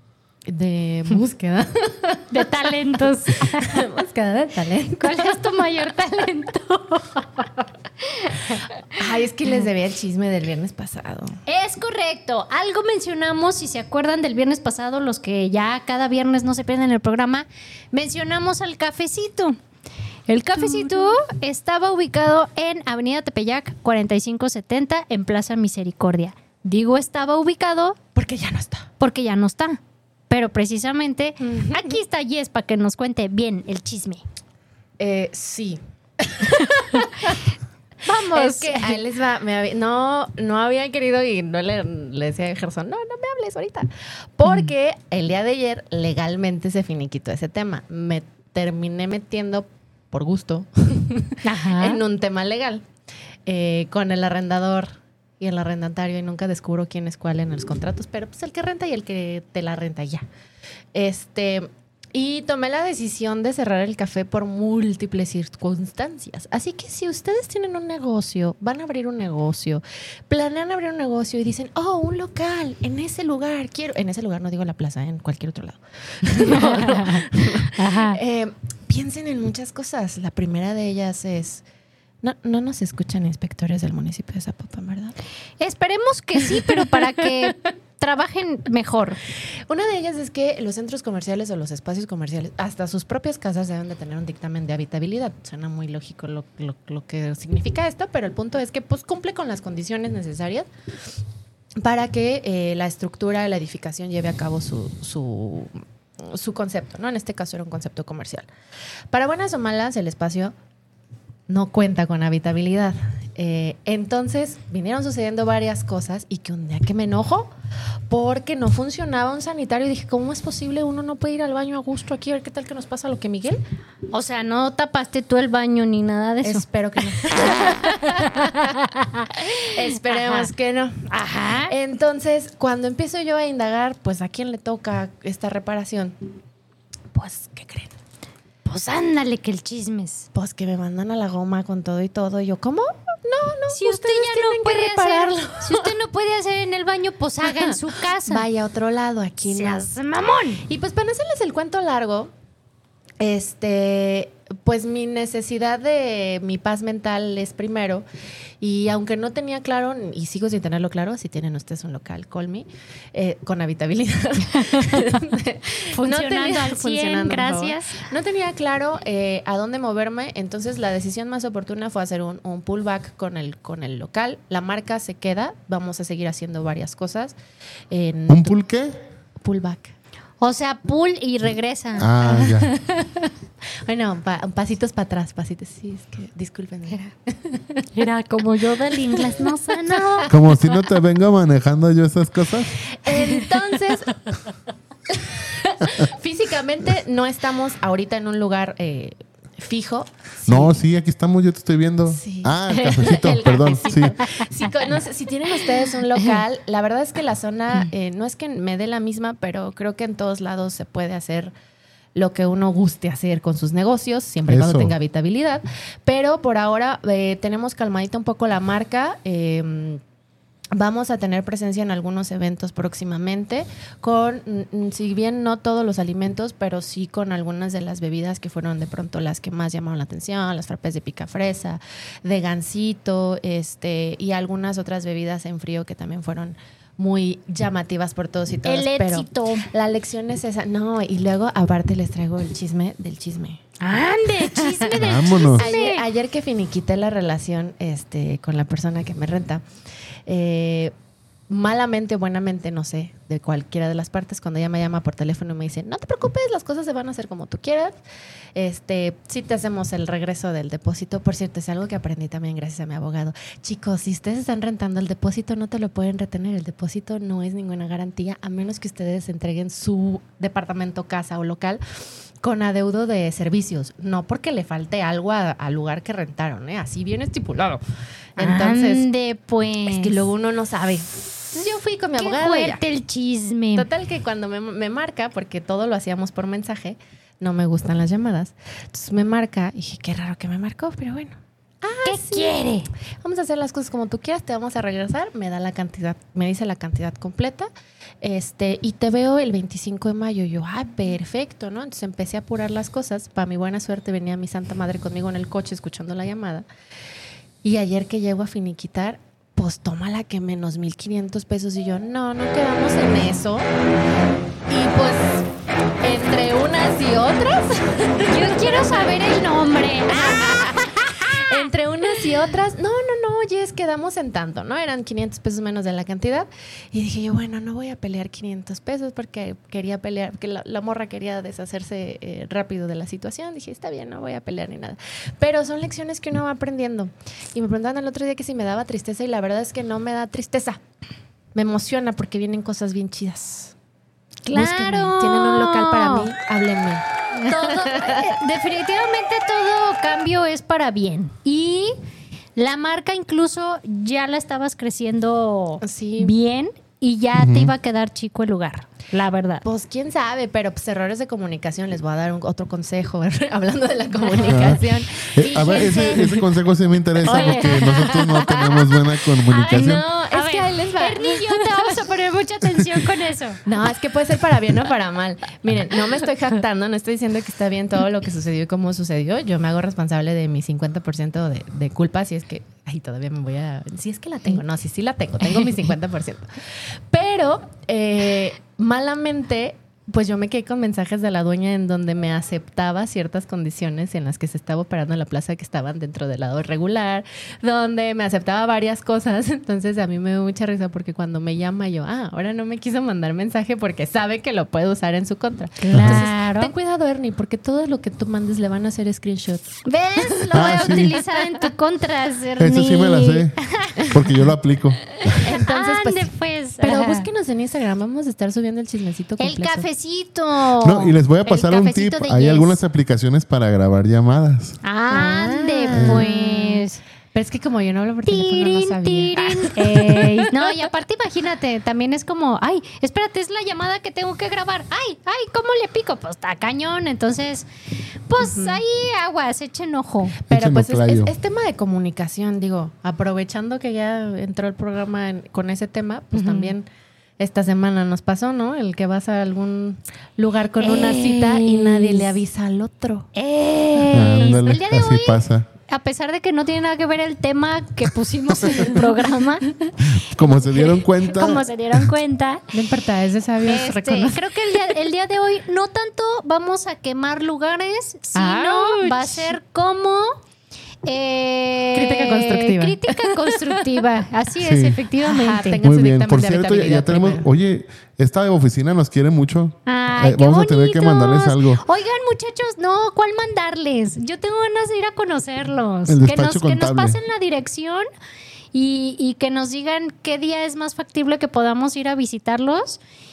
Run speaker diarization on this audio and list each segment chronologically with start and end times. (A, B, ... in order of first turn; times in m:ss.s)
0:00.5-0:02.5 A
0:02.3-0:03.8 B
0:03.4-0:05.4 A
0:05.0-0:08.7 B
0:09.0-0:11.4 A
0:11.5-0:19.6 B
0:20.3-0:28.0 B
0:20.6-0:21.2 A
0:28.2-0:28.9 A
0:29.0-0:34.2 B
0:31.4-0:31.9 A
0:35.0-0:37.4 A
0:36.9-0:37.4 B
0:38.0-0:39.0 B
0:38.3-0:52.8 A
0:51.4-0:52.0 B
0:53.5-1:00.2 A
1:00.9-1:21.6 A
1:16.3-1:18.2 B
1:22.2-1:25.2 A
1:25.6-1:29.2 B
1:26.6-1:27.1 A
1:29.7-1:40.7 A
1:41.8-1:48.5 A
1:49.1-1:50.5 A
1:51.5-1:57.5 A
1:58.1-2:03.6 A
2:04.1-2:06.6 B
2:06.4-2:08.7 A
2:07.2-2:10.5 B
2:09.6-2:11.1 A
2:11.1-2:11.7 B
2:11.7-2:16.2 A
2:17.1-2:18.0 A
2:18.7-2:20.3 B
2:20.3-2:25.9 A
2:23.7-2:28.4 B
2:27.4-2:29.9 A
2:29.5-2:30.6 B
2:30.7-2:32.3 A
2:33.2-2:38.0 A
2:38.6-2:57.4 A
2:44.8-2:45.0 B
2:45.9-2:48.0 B
2:57.9-2:58.6 A
2:58.3-2:59.0 C
2:59.4-2:59.9 A
3:00.4-3:02.3 B
3:02.0-3:02.7 C
3:02.3-3:03.1 A
3:03.9-3:07.8 A
3:07.9-3:10.3 B
3:09.1-3:09.4 A
3:10.3-3:12.8 C
3:12.9-3:14.2 A
3:15.1-3:20.8 A
3:20.5-3:24.2 C
3:22.1-3:31.5 A
3:32.2-3:40.0 A
3:34.5-3:34.9 C
3:40.7-4:03.6 A
3:58.6-3:59.7 B
4:03.8-4:06.0 B
4:04.4-4:09.6 A
4:05.0-4:05.6 C
4:10.3-4:10.9 A
4:11.5-4:18.0 A
4:18.6-4:31.8 A
4:32.4-4:37.8 A
4:38.4-4:39.1 A
4:38.4-4:40.1 B
4:39.9-4:42.8 A
4:42.2-4:43.9 B
4:43.8-4:52.6 A
4:52.0-4:52.9 B
4:53.2-4:57.7 A
4:58.2-5:06.7 A
5:07.6-5:13.7 A
5:14.7-5:15.5 A
5:16.0-5:19.2 A
5:18.2-5:21.4 B
5:20.1-5:40.8 A
5:41.6-5:43.7 A
5:44.4-5:46.3 B
5:44.5-5:48.3 A
5:47.3-5:52.0 B
5:52.6-5:59.6 B
5:55.8-5:56.3 A
5:57.4-5:57.7 C
5:59.6-6:06.4 A
6:04.5-6:10.0 C
6:05.4-6:06.3 B
6:07.3-6:08.5 A
6:07.3-6:08.9 B
6:09.5-6:13.6 B
6:09.7-6:12.1 A
6:13.7-6:26.4 A
6:27.1-6:51.0 A
6:45.8-6:46.7 B
6:45.9-6:46.3 C
6:49.9-6:54.1 B
6:50.5-6:51.2 C
6:52.6-6:53.6 C
6:54.1-6:55.4 C
6:55.2-6:57.3 B
6:55.4-6:59.9 A
6:59.4-7:02.8 B
7:00.8-7:04.8 C
7:04.8-7:07.0 B
7:05.1-7:10.7 A
7:05.9-7:06.3 C
7:08.3-7:17.7 B
7:18.3-7:20.4 B
7:18.4-7:18.8 A
7:20.5-7:26.9 A
7:20.5-7:21.3 C
7:26.3-7:26.7 B
7:27.4-7:33.3 A
7:30.8-7:32.3 B
7:33.3-7:39.7 B
7:34.1-7:35.7 C
7:40.0-7:42.1 C
7:40.7-7:42.7 B
7:42.7-7:44.4 A
7:43.6-7:50.4 B
7:48.4-7:49.5 A
7:51.0-7:55.8 B
7:51.9-7:54.0 A
7:54.6-7:55.0 C
7:55.2-7:57.5 A
7:55.8-8:01.8 C
7:59.9-8:08.1 B
8:06.1-8:07.2 C
8:08.7-8:13.0 B